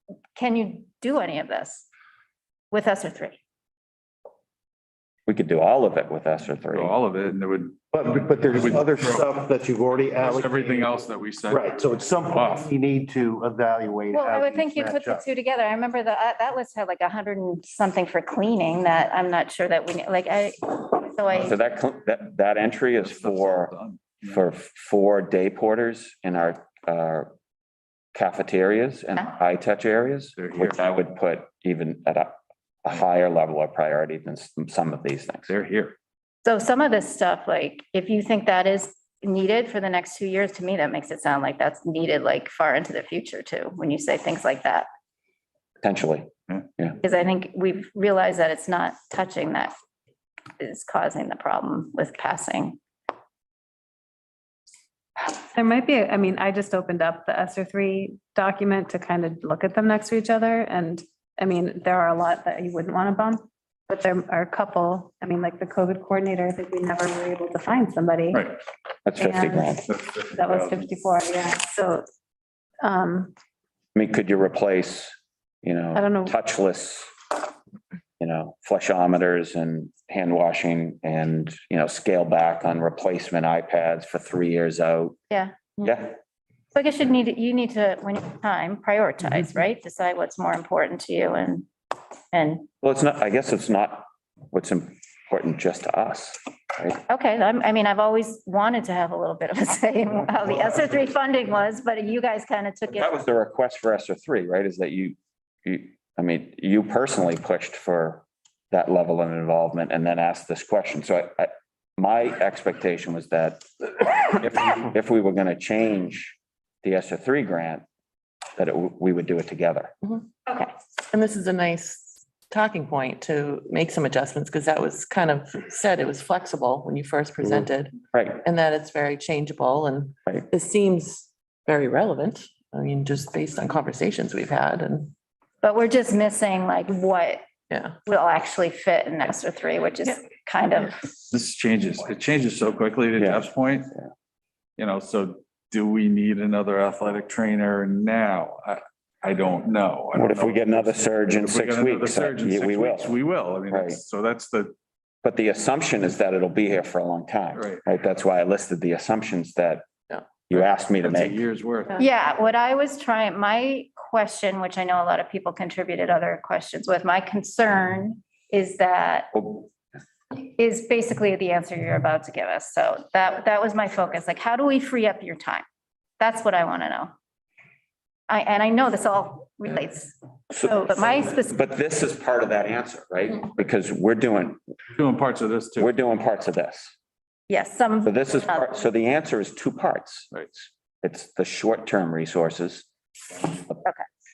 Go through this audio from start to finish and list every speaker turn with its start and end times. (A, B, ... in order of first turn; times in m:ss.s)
0:00.4-0:01.9 A
0:02.7-0:03.4 A
0:05.3-0:06.9 B
0:06.7-0:07.9 C
0:07.9-0:11.0 D
0:08.5-0:09.3 C
0:10.2-0:12.7 C
0:11.5-0:15.2 D
0:14.1-0:21.6 A
0:21.3-0:23.7 B
0:23.0-0:24.5 C
0:24.3-0:27.3 B
0:28.1-0:35.5 B
0:30.4-0:30.8 C
0:35.5-0:36.0 C
0:36.4-0:44.9 A
0:45.8-0:47.0 B
0:47.0-0:49.7 A
0:50.6-0:52.8 A
0:55.5-1:08.5 E
1:08.3-1:08.6 C
1:09.1-1:09.9 B
1:09.2-1:12.0 E
1:09.9-1:10.9 C
1:12.8-1:13.3 E
1:14.0-1:17.1 B
1:16.0-1:16.4 E
1:18.2-1:25.2 B
1:25.3-1:25.9 A
1:25.8-1:26.1 B
1:26.7-1:31.7 A
1:32.3-1:32.7 A
1:32.8-1:37.0 B
1:37.1-1:43.2 A
1:42.9-1:57.8 B
1:58.6-1:59.9 B
2:00.5-2:00.7 A
2:01.1-2:15.1 F
2:08.1-2:08.4 B
2:15.6-2:17.5 A
2:18.0-2:21.0 A
2:21.3-2:23.9 C
2:24.8-2:34.7 C
2:30.1-2:33.2 B
2:33.7-2:34.0 B
2:35.2-2:39.9 B
2:37.6-2:37.8 C
2:40.5-2:41.4 B
2:40.5-2:42.1 C
2:42.0-2:49.4 A
2:50.3-2:55.7 A
2:56.2-2:57.1 A
2:58.3-3:01.6 A
3:00.5-3:04.6 B
3:05.0-3:06.0 C
3:05.8-3:06.9 B
3:07.5-3:08.6 A
3:08.0-3:10.4 B
3:10.3-3:10.6 C
3:11.0-3:12.9 B
3:13.6-3:13.9 B